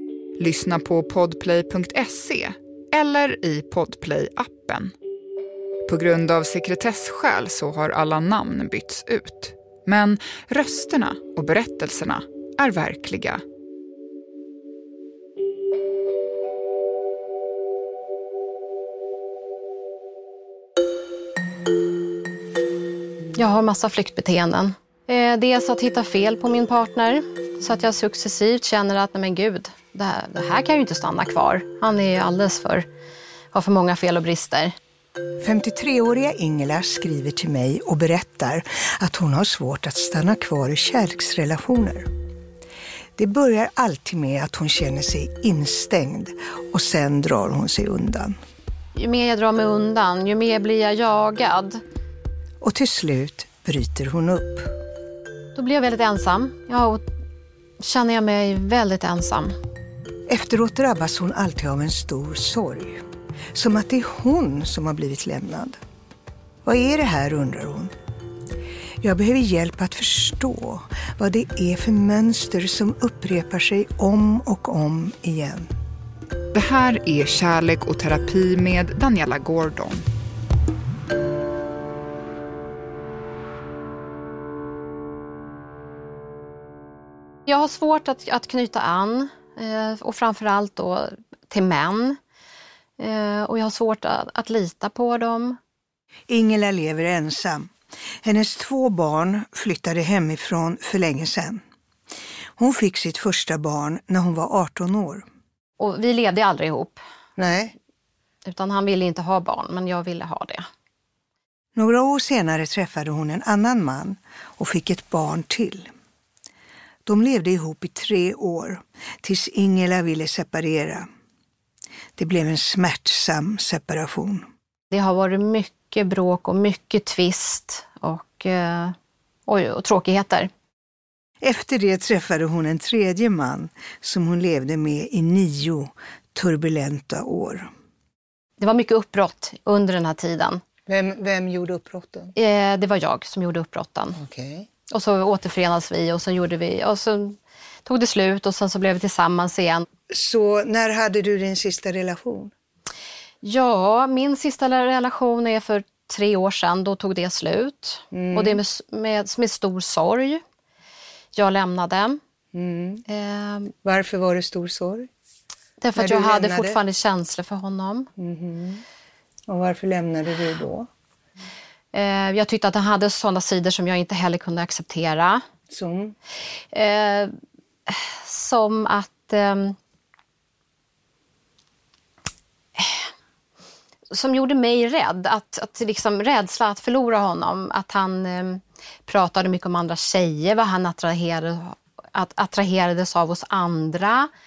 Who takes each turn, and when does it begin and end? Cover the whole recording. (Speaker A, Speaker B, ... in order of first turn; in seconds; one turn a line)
Speaker A: 0.4-4.9
Speaker A: 5.8-13.4
Speaker B: 23.3-32.9
Speaker B: 33.5-34.7
Speaker C: 35.4-42.1
Speaker C: 43.2-48.3
Speaker B: 49.0-51.8
Speaker C: 52.6-54.7
Speaker B: 55.5-57.0
Speaker B: 57.8-59.5
Speaker C: 60.3-63.0
Speaker C: 63.5-65.8
Speaker C: 66.6-67.9
Speaker C: 69.0-75.7
Speaker A: 76.5-80.0
Speaker B: 87.5-92.2
Speaker B: 93.0-95.6
Speaker C: 96.3-97.7
Speaker C: 98.2-101.6
Speaker C: 102.6-105.2
Speaker B: 105.8-107.0
Speaker C: 107.4-107.7
Speaker B: 108.4-110.7
Speaker C: 111.7-115.9
Speaker C: 117.0-121.1
Speaker C: 122.2-124.5
Speaker B: 124.9-128.9
Speaker B: 129.5-130.5
Speaker C: 131.4-137.7
Speaker B: 138.6-140.6
Speaker C: 140.9-142.3
Speaker B: 142.3-144.2
Speaker C: 144.1-144.7
Speaker B: 144.9-149.8
Speaker C: 150.1-152.5
Speaker B: 153.4-160.4
Speaker C: 158.1-158.6
Speaker B: 161.3-162.2
Speaker C: 162.5-163.0
Speaker B: 163.1-163.7
Speaker C: 163.8-165.1
Speaker B: 165.8-168.1
Speaker C: 165.9-166.8
Speaker C: 168.2-168.8
Speaker C: 169.5-170.9
Speaker B: 171.9-175.4
Speaker C: 175.7-176.2
Speaker B: 176.7-177.3
Speaker B: 177.9-179.8
Speaker B: 182.8-183.1
Speaker B: 184.1-194.3